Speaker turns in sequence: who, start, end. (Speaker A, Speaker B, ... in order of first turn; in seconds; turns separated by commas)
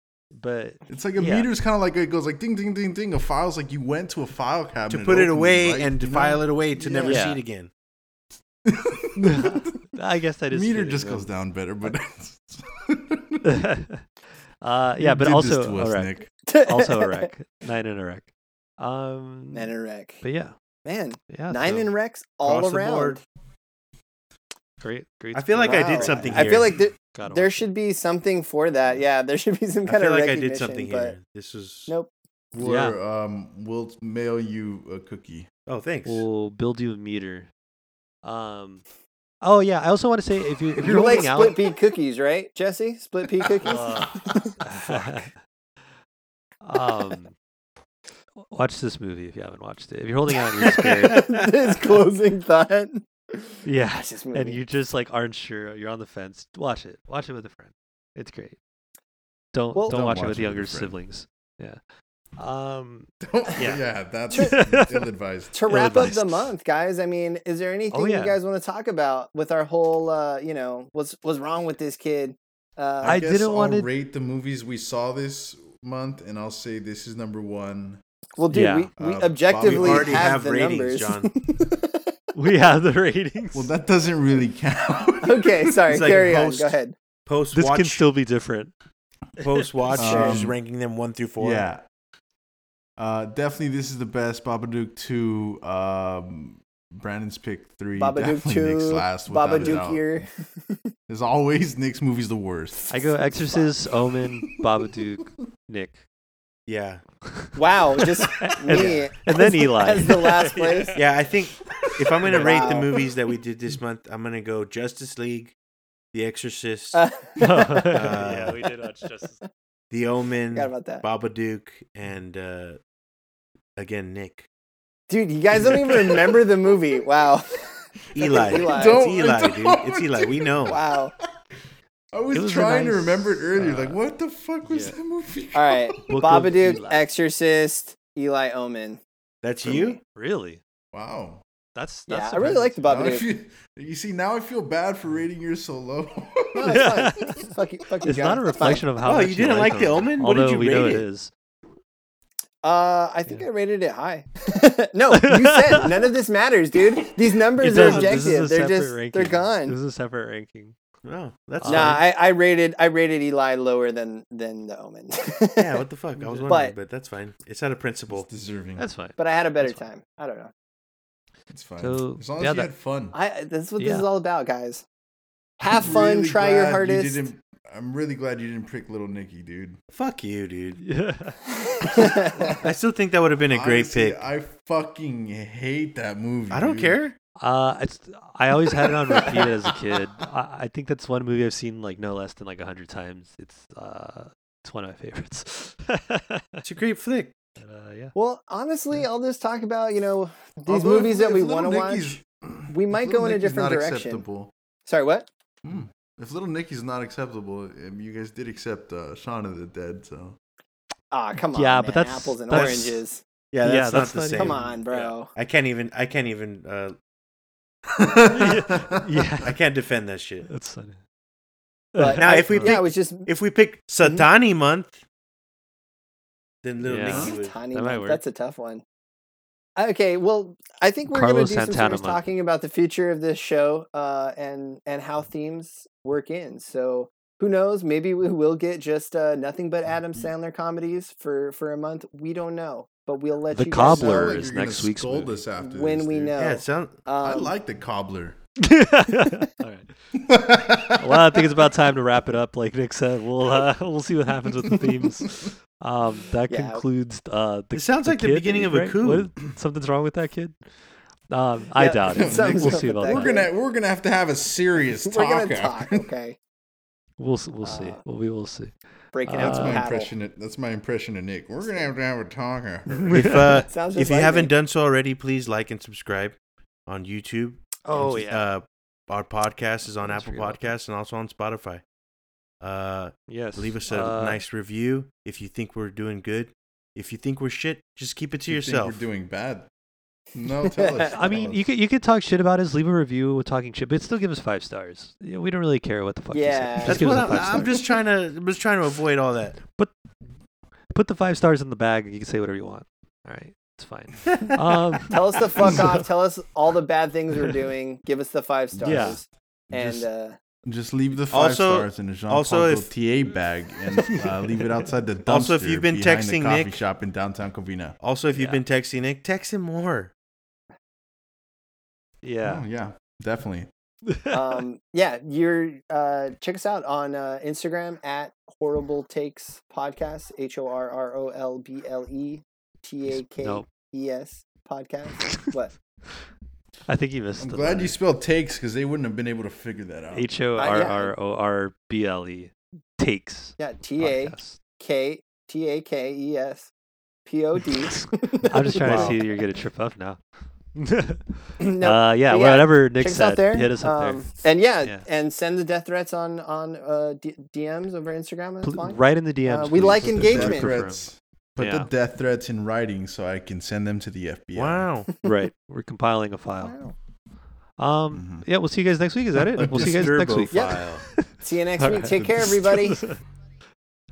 Speaker A: 0.3-1.5, Speaker B: 0.9-6.4, Speaker C: 4.9-7.7, Speaker D: 6.8-7.2, Speaker A: 7.0-7.4, Speaker B: 8.6-9.7, Speaker A: 9.2-11.3, Speaker B: 10.5-13.6, Speaker A: 13.4-14.0, Speaker A: 14.6-20.5, Speaker B: 15.0-16.3, Speaker D: 16.4-17.3, Speaker D: 19.5-20.2, Speaker D: 20.8-23.2, Speaker A: 21.3-21.9, Speaker C: 22.4-23.2, Speaker A: 24.8-27.7, Speaker C: 25.3-26.8, Speaker D: 25.6-31.1, Speaker B: 26.0-26.6, Speaker C: 29.9-31.9, Speaker A: 32.5-33.0, Speaker B: 32.5-35.5, Speaker C: 35.7-36.2, Speaker A: 36.0-37.5, Speaker A: 38.2-38.8, Speaker A: 39.4-41.6, Speaker D: 40.8-44.5, Speaker A: 43.6-45.4, Speaker A: 46.6-47.3, Speaker A: 48.4-51.3, Speaker D: 50.6-54.6, Speaker C: 51.1-51.4, Speaker A: 53.6-58.6, Speaker A: 59.5-61.8, Speaker D: 59.7-60.0, Speaker B: 59.9-61.0, Speaker A: 62.4-65.0, Speaker B: 63.2-65.6, Speaker D: 65.5-73.2, Speaker A: 65.7-66.5, Speaker A: 67.9-68.4, Speaker B: 73.0-78.0, Speaker A: 73.0-73.9, Speaker D: 78.4-82.1, Speaker A: 78.5-78.9, Speaker B: 79.0-80.3, Speaker C: 79.6-81.3, Speaker A: 82.3-83.7, Speaker B: 83.5-85.8, Speaker D: 85.2-87.0, Speaker C: 85.9-86.7, Speaker C: 87.2-88.0, Speaker A: 87.5-88.7, Speaker C: 89.4-91.6, Speaker B: 89.9-90.6, Speaker D: 90.0-90.4, Speaker B: 91.4-91.8, Speaker B: 93.0-100.1, Speaker D: 98.0-100.9, Speaker B: 101.1-103.0, Speaker D: 102.8-103.7, Speaker A: 102.9-106.0, Speaker B: 104.6-105.3, Speaker C: 106.7-107.0, Speaker A: 107.2-111.1, Speaker D: 107.5-111.0, Speaker C: 111.0-115.5, Speaker B: 111.7-112.4, Speaker D: 112.2-113.0, Speaker A: 112.3-112.7, Speaker C: 116.1-117.0, Speaker D: 116.9-118.2, Speaker A: 117.4-119.4, Speaker C: 117.9-118.6, Speaker C: 119.9-122.8, Speaker D: 120.5-121.0, Speaker C: 123.8-124.5, Speaker D: 125.1-129.0, Speaker B: 125.6-126.3, Speaker C: 128.1-130.8, Speaker B: 128.5-131.3, Speaker D: 130.7-131.1, Speaker B: 132.1-136.0, Speaker A: 132.3-134.0, Speaker A: 134.6-134.9, Speaker D: 135.5-139.0, Speaker A: 136.1-137.0, Speaker C: 139.4-140.0, Speaker D: 139.6-140.0, Speaker A: 140.1-140.6, Speaker B: 140.9-141.4, Speaker A: 141.7-142.8, Speaker D: 142.1-143.2, Speaker B: 142.8-146.9, Speaker D: 146.6-148.8, Speaker A: 146.7-147.5, Speaker A: 148.0-151.3, Speaker C: 149.0-151.0, Speaker D: 152.6-159.8, Speaker A: 155.1-156.1, Speaker A: 157.6-160.7, Speaker C: 157.8-158.2, Speaker C: 161.0-162.0, Speaker A: 161.6-162.0, Speaker D: 161.7-165.8, Speaker C: 165.6-168.3, Speaker A: 166.2-166.6, Speaker D: 166.5-166.7, Speaker B: 168.1-168.8, Speaker A: 168.8-169.8, Speaker D: 169.2-170.5, Speaker B: 171.5-173.1, Speaker A: 171.8-172.7, Speaker D: 173.1-174.8, Speaker A: 173.8-174.1, Speaker D: 175.6-177.2, Speaker B: 175.7-179.8, Speaker C: 179.9-180.8, Speaker A: 180.8-181.4, Speaker D: 181.5-182.6, Speaker C: 182.4-184.2, Speaker B: 183.5-187.0, Speaker C: 186.5-187.1, Speaker A: 187.4-196.6, Speaker C: 196.6-197.3, Speaker A: 197.6-198.1, Speaker D: 198.1-202.2, Speaker B: 200.7-204.5, Speaker D: 202.7-204.2, Speaker D: 204.8-205.3, Speaker B: 205.6-210.4, Speaker D: 211.1-213.2, Speaker A: 211.5-213.0, Speaker C: 212.5-212.9, Speaker C: 213.5-214.8, Speaker A: 213.6-215.2, Speaker D: 214.3-215.3, Speaker C: 215.3-216.9, Speaker B: 217.9-219.1, Speaker A: 218.3-219.6, Speaker C: 219.4-220.5, Speaker A: 220.5-221.0, Speaker A: 221.9-222.2, Speaker D: 222.0-223.3, Speaker C: 222.1-225.0, Speaker C: 226.6-227.6, Speaker A: 226.8-228.2, Speaker D: 227.1-228.8, Speaker D: 229.8-244.5, Speaker A: 231.1-232.2, Speaker A: 243.5-245.4, Speaker B: 243.8-246.4, Speaker D: 245.6-247.5, Speaker C: 246.4-247.1, Speaker B: 247.2-248.4, Speaker A: 248.6-249.9, Speaker B: 250.1-251.5, Speaker A: 251.0-260.6, Speaker D: 256.5-256.8, Speaker C: 257.7-259.3, Speaker A: 261.3-263.3, Speaker D: 261.8-263.5, Speaker B: 262.1-266.1, Speaker D: 265.0-266.4, Speaker A: 267.2-269.8, Speaker D: 267.6-268.0, Speaker D: 269.1-270.1, Speaker B: 269.3-273.4, Speaker D: 271.6-271.9, Speaker A: 272.9-273.7, Speaker C: 273.1-281.8, Speaker D: 273.7-274.5, Speaker A: 277.9-278.4, Speaker A: 280.0-280.7, Speaker C: 282.6-289.0, Speaker A: 283.3-284.4, Speaker B: 288.5-289.7, Speaker B: 290.3-291.6, Speaker D: 290.7-291.5, Speaker A: 291.0-297.8, Speaker D: 296.3-297.6, Speaker C: 296.8-299.6, Speaker A: 300.9-306.1, Speaker D: 305.1-310.4, Speaker B: 308.8-309.1, Speaker A: 308.8-309.2, Speaker B: 309.7-310.1, Speaker B: 310.6-317.9, Speaker C: 311.3-312.9, Speaker A: 313.9-314.9, Speaker C: 315.2-316.8, Speaker C: 318.0-320.1, Speaker A: 318.3-318.6, Speaker A: 322.2-322.6, Speaker B: 322.4-323.7, Speaker A: 324.1-324.4, Speaker D: 324.3-335.7, Speaker A: 333.1-333.6, Speaker A: 336.9-338.0, Speaker B: 337.4-340.3, Speaker A: 340.1-344.6, Speaker D: 340.6-341.1, Speaker D: 343.6-346.7, Speaker D: 347.2-349.2, Speaker A: 347.9-350.2, Speaker B: 348.8-349.1, Speaker A: 350.8-354.3, Speaker D: 351.6-360.8, Speaker A: 358.6-361.1, Speaker B: 359.8-364.9, Speaker A: 361.6-361.9, Speaker C: 364.6-365.1, Speaker A: 365.2-366.8, Speaker D: 366.6-366.9, Speaker A: 367.8-373.2, Speaker B: 368.1-368.4, Speaker B: 369.4-370.1, Speaker C: 369.6-371.0, Speaker D: 370.5-370.8, Speaker D: 371.4-373.0, Speaker B: 372.1-372.4